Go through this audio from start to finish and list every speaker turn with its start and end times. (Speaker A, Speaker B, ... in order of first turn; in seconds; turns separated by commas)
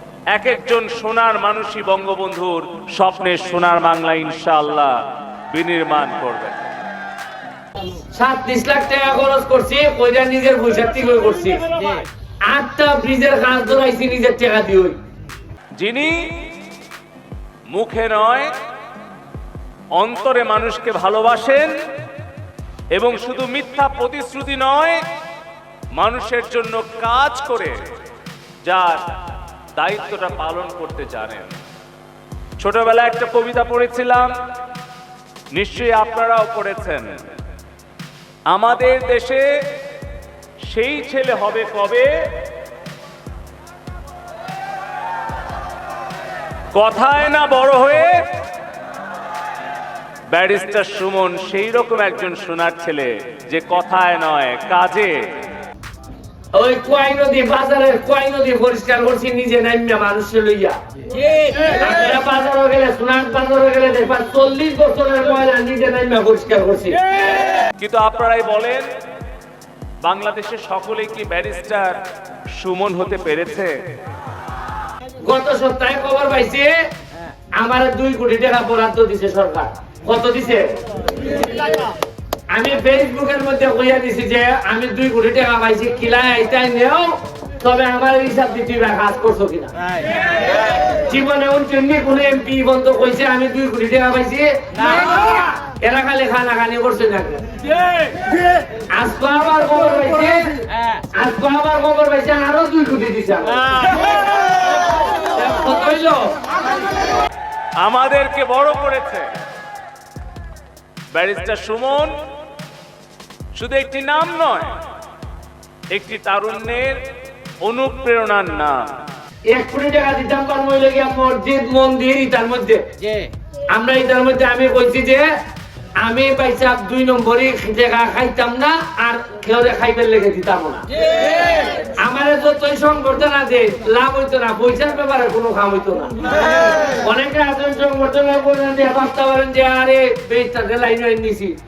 Speaker A: 0.3-5.0, Speaker A: 5.5-6.6, Speaker B: 8.2-11.7, Speaker B: 12.5-15.0, Speaker A: 15.8-16.3, Speaker A: 17.7-18.5, Speaker A: 20.0-21.8, Speaker A: 22.9-25.0, Speaker A: 26.0-27.8, Speaker A: 28.6-29.0, Speaker A: 29.8-31.6, Speaker A: 32.6-34.3, Speaker A: 35.5-37.1, Speaker A: 38.5-39.4, Speaker A: 40.7-42.1, Speaker A: 46.7-48.2, Speaker A: 50.3-55.2, Speaker B: 56.5-60.8, Speaker B: 61.5-67.0, Speaker A: 67.8-68.9, Speaker A: 70.0-72.0, Speaker A: 72.6-73.8, Speaker B: 75.3-76.7, Speaker B: 77.6-80.7, Speaker B: 82.5-89.7, Speaker B: 91.0-97.5, Speaker B: 99.0-100.6, Speaker B: 101.2-104.0, Speaker B: 105.3-106.4, Speaker A: 107.8-109.3, Speaker A: 111.1-112.1, Speaker A: 113.5-114.7, Speaker A: 115.9-117.0, Speaker A: 117.6-118.9, Speaker B: 119.5-122.8, Speaker B: 123.7-125.2, Speaker B: 126.0-130.8, Speaker B: 131.9-141.6